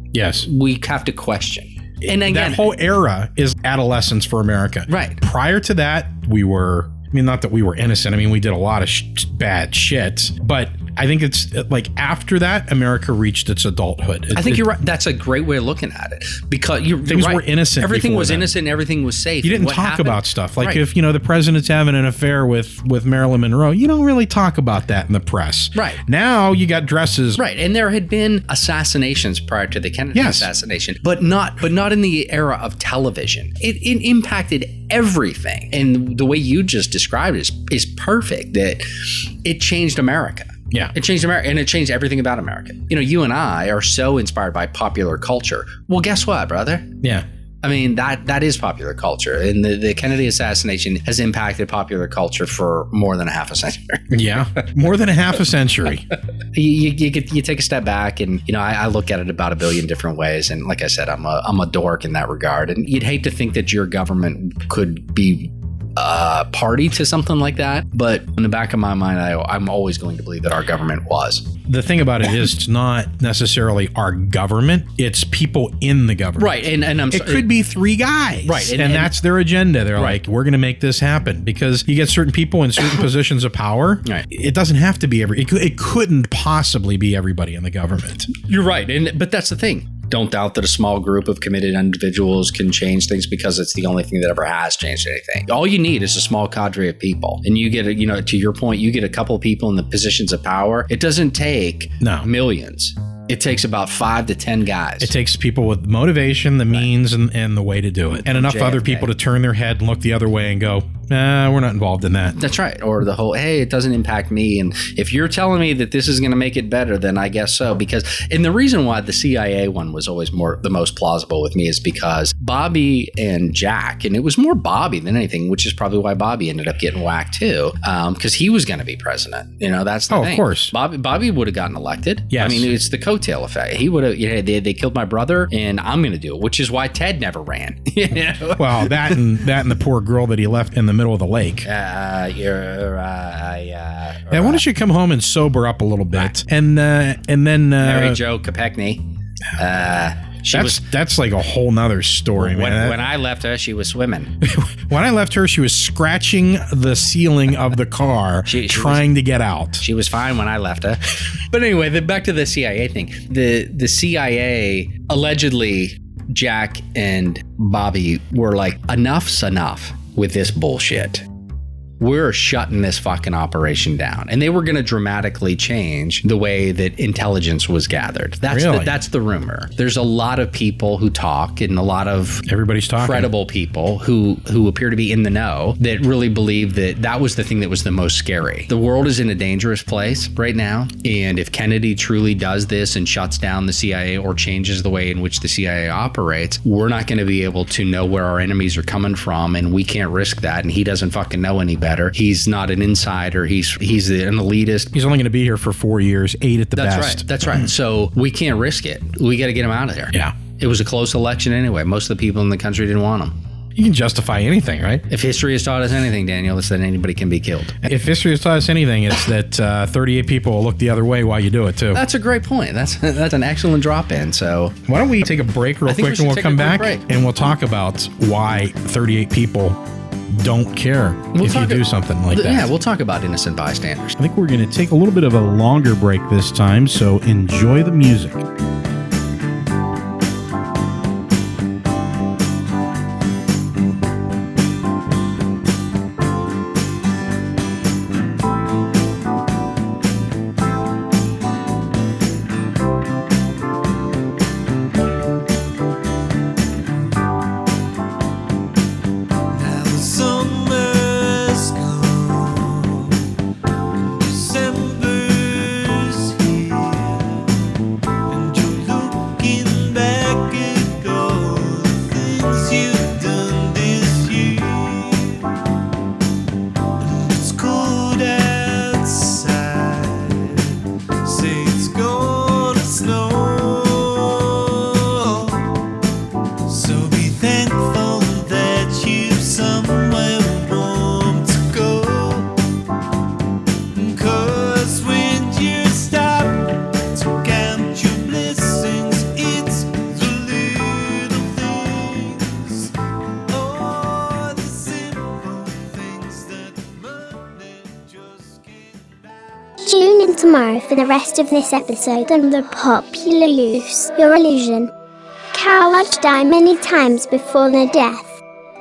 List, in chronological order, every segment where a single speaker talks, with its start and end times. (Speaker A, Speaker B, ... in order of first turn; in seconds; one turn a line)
Speaker A: 0.1-0.5
Speaker B: 0.4-2.7
Speaker A: 2.0-14.7
Speaker B: 4.9-5.2
Speaker B: 14.3-20.8
Speaker A: 17.1-18.5
Speaker A: 19.4-27.4
Speaker B: 25.7-26.0
Speaker B: 27.4-47.0
Speaker A: 30.1-30.5
Speaker B: 47.6-54.4
Speaker A: 54.1-56.1
Speaker B: 56.5-71.5
Speaker A: 71.7-76.6
Speaker B: 76.4-77.5
Speaker A: 77.1-88.3
Speaker B: 78.4-79.2
Speaker B: 80.0-80.2
Speaker B: 88.3-105.1
Speaker A: 102.0-102.3
Speaker A: 105.0-112.4
Speaker B: 108.2-109.1
Speaker B: 112.4-139.2
Speaker A: 130.1-130.7
Speaker A: 132.3-132.7
Speaker A: 138.6-141.7
Speaker B: 141.6-144.7
Speaker A: 144.3-148.2
Speaker B: 147.8-149.0
Speaker B: 149.6-150.8
Speaker A: 150.5-153.1
Speaker B: 152.4-154.3
Speaker A: 154.4-159.8
Speaker B: 158.5-159.1
Speaker B: 159.8-171.2
Speaker B: 172.0-182.4
Speaker A: 178.4-179.0
Speaker A: 182.4-183.3
Speaker B: 183.0-204.9
Speaker A: 204.9-207.5
Speaker B: 206.7-213.3
Speaker A: 213.8-215.0
Speaker B: 215.1-217.8
Speaker A: 217.8-222.0
Speaker B: 221.9-224.8
Speaker A: 224.8-232.7
Speaker B: 225.8-227.0
Speaker B: 231.3-234.2
Speaker A: 234.2-238.4
Speaker C: 259.5-263.3
Speaker C: 264.0-267.6
Speaker C: 268.3-275.5
Speaker C: 277.0-285.8
Speaker C: 286.7-292.5
Speaker C: 293.9-302.9
Speaker C: 303.5-309.2
Speaker D: 309.8-314.9
Speaker D: 315.5-318.4